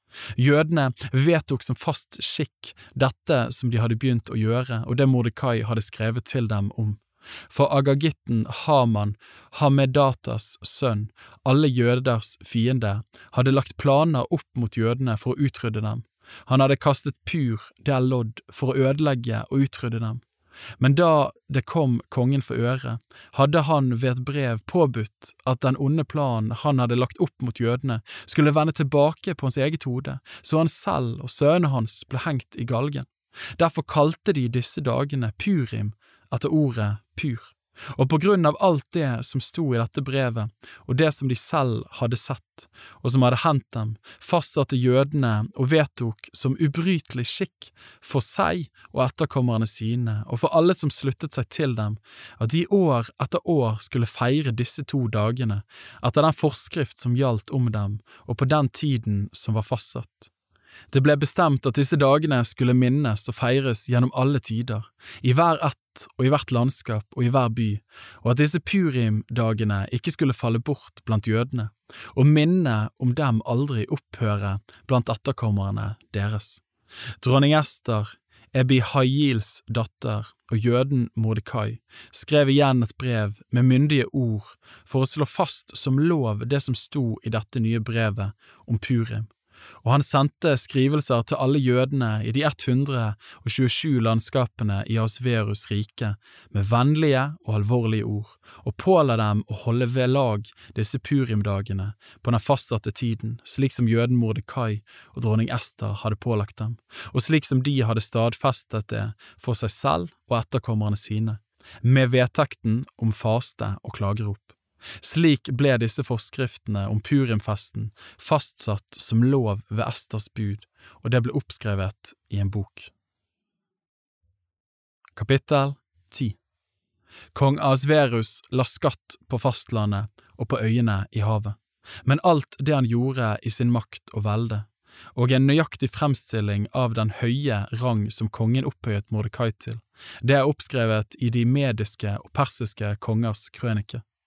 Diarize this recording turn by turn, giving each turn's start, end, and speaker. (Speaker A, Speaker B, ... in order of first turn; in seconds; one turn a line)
Speaker A: 0.4-20.2
Speaker A: 20.8-60.3
Speaker A: 60.9-76.6
Speaker A: 77.2-89.3
Speaker A: 89.8-122.9
Speaker A: 125.2-126.4
Speaker A: 127.3-144.0